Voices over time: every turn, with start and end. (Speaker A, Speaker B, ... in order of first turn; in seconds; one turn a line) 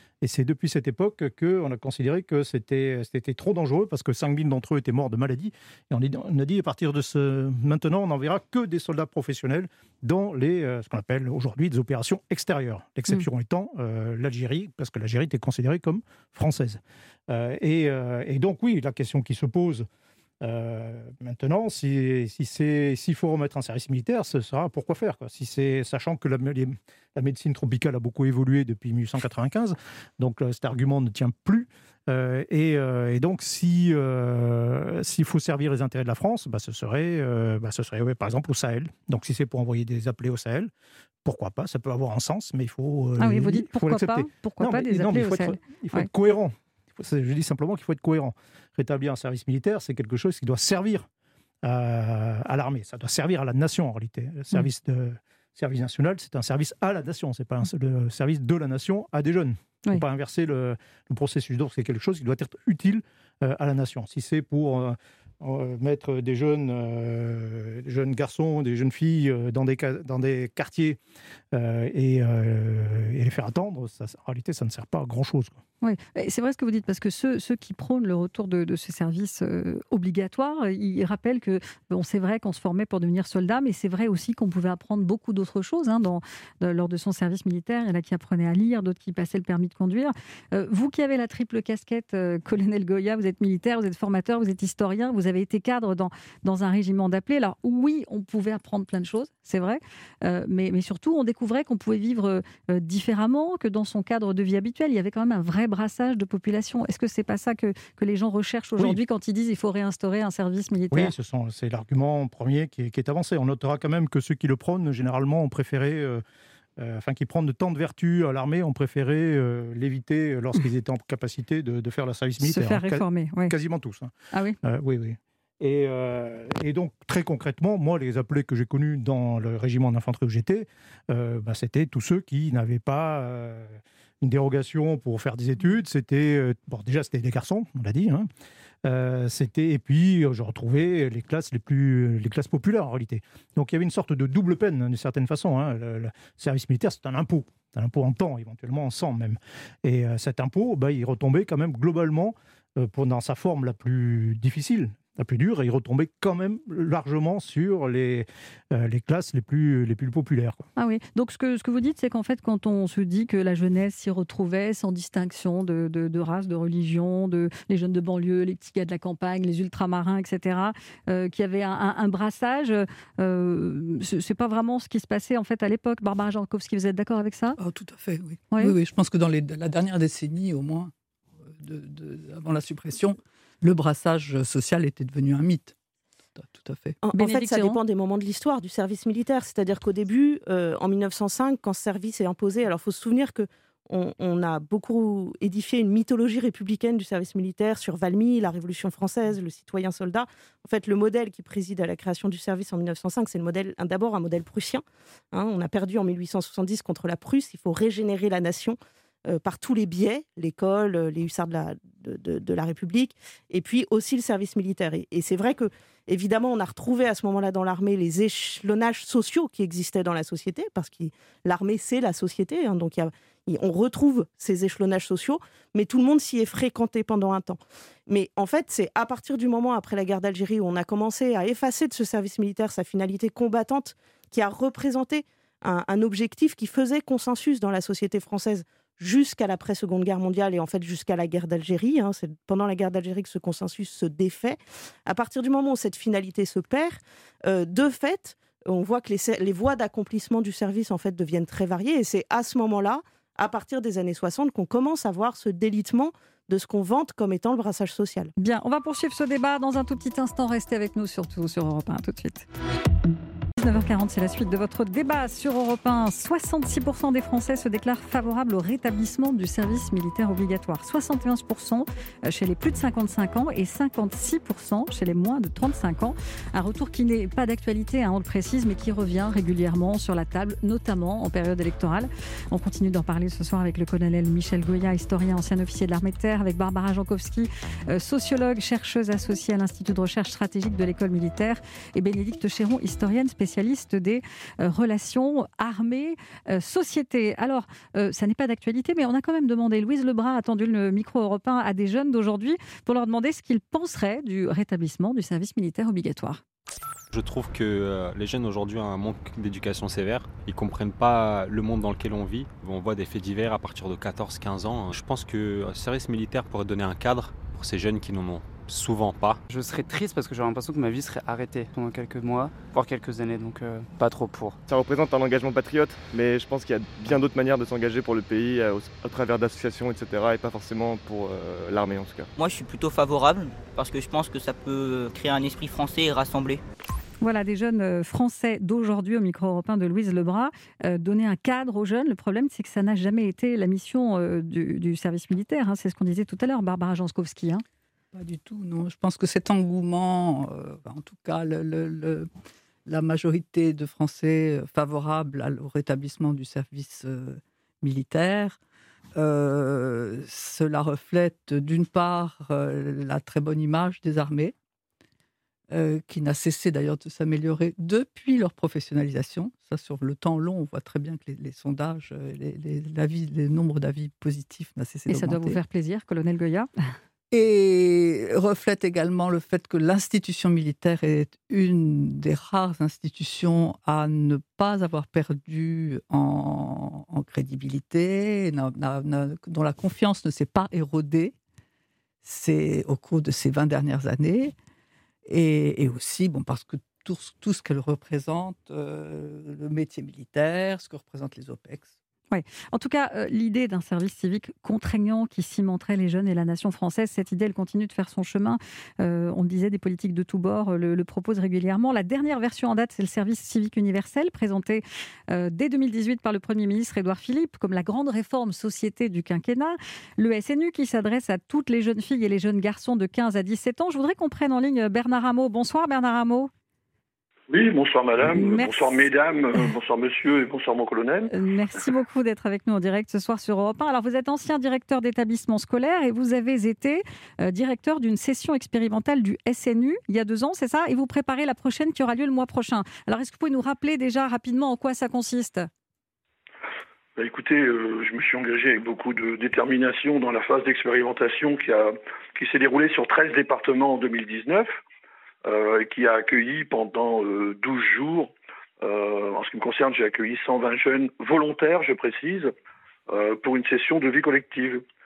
Speaker A: 0.2-19.9
Speaker A: 20.4-40.7
Speaker A: 41.2-51.1
Speaker B: 43.2-46.1
Speaker A: 51.6-71.0
Speaker A: 71.5-75.6
Speaker B: 75.8-111.1
Speaker A: 110.9-116.2
Speaker A: 116.8-138.3
Speaker B: 122.4-123.5
Speaker A: 138.8-160.6
Speaker B: 160.8-177.6
Speaker C: 177.6-180.9
Speaker C: 181.5-185.7
Speaker C: 186.4-187.0
Speaker D: 187.0-258.3
Speaker B: 187.2-187.8
Speaker B: 258.4-262.5
Speaker B: 263.6-306.4
Speaker E: 307.1-319.4
Speaker F: 319.5-324.6
Speaker G: 324.7-332.3
Speaker H: 332.4-336.6
Speaker B: 337.2-347.6
Speaker C: 348.1-352.3
Speaker C: 352.9-358.6
Speaker C: 359.1-364.5
Speaker C: 365.7-375.6
Speaker B: 375.1-376.7
Speaker C: 377.3-391.3
Speaker C: 392.2-394.5
Speaker C: 395.3-401.9
Speaker B: 402.3-426.5
Speaker I: 427.5-431.3
Speaker B: 428.2-428.9
Speaker B: 431.3-445.7
Speaker I: 447.2-454.8
Speaker I: 455.4-462.5
Speaker I: 463.1-464.8